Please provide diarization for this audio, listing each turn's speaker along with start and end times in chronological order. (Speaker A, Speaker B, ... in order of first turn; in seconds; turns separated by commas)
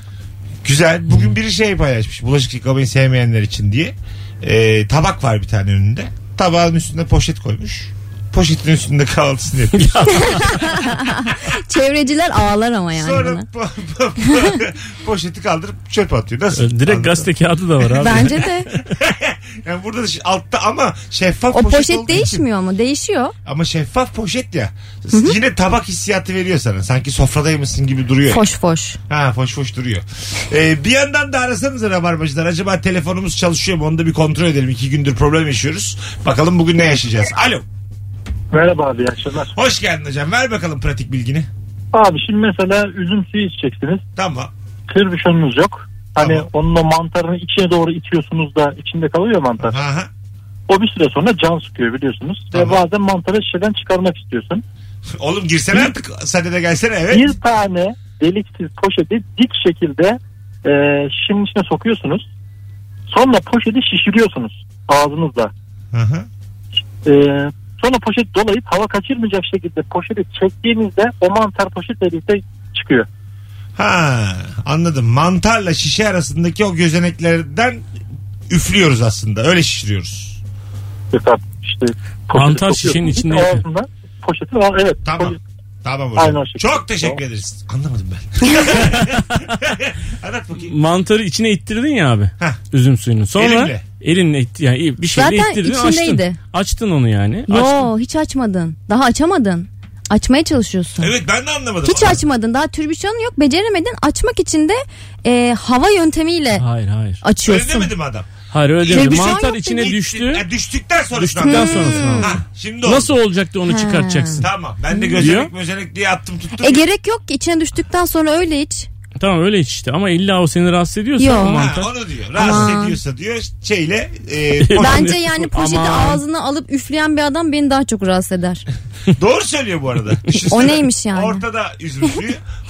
Speaker A: 0.6-10.6, Speaker B: 9.8-10.3, Speaker C: 10.1-13.4, Speaker A: 12.9-17.3, Speaker B: 16.5-18.4, Speaker A: 17.9-22.4, Speaker C: 18.0-18.7, Speaker C: 21.5-23.3, Speaker A: 23.4-28.4, Speaker C: 28.3-29.0, Speaker A: 29.1-37.6, Speaker D: 38.5-39.5, Speaker A: 39.5-41.5, Speaker D: 41.9-44.0, Speaker A: 44.1-44.5, Speaker D: 44.9-49.8, Speaker A: 46.2-46.5, Speaker A: 49.6-50.1, Speaker D: 50.7-54.6, Speaker A: 52.5-52.8, Speaker A: 55.1-57.3, Speaker D: 57.1-62.2, Speaker D: 63.1-65.5, Speaker A: 65.9-66.3, Speaker D: 67.0-73.1, Speaker A: 73.8-77.8, Speaker A: 78.5-80.4, Speaker D: 81.1-85.4, Speaker B: 82.3-83.6, Speaker A: 85.0-90.7, Speaker D: 86.2-87.2, Speaker B: 90.6-97.9, Speaker A: 93.3-93.8, Speaker C: 95.0-96.4, Speaker C: 97.5-101.1, Speaker A: 101.0-102.2, Speaker C: 101.8-106.6, Speaker B: 106.5-107.2, Speaker C: 107.2-107.9, Speaker A: 107.4-108.3, Speaker B: 108.5-110.4, Speaker C: 108.8-109.9, Speaker A: 108.9-113.1, Speaker B: 111.1-114.5, Speaker C: 111.4-112.3, Speaker C: 113.7-114.4, Speaker A: 114.4-116.8, Speaker B: 115.2-115.5, Speaker C: 116.6-118.9, Speaker B: 119.2-121.9, Speaker C: 121.2-121.6, Speaker A: 121.5-125.2, Speaker C: 122.3-123.0, Speaker B: 124.6-126.2, Speaker C: 124.8-128.6, Speaker A: 129.1-132.4, Speaker C: 130.4-131.4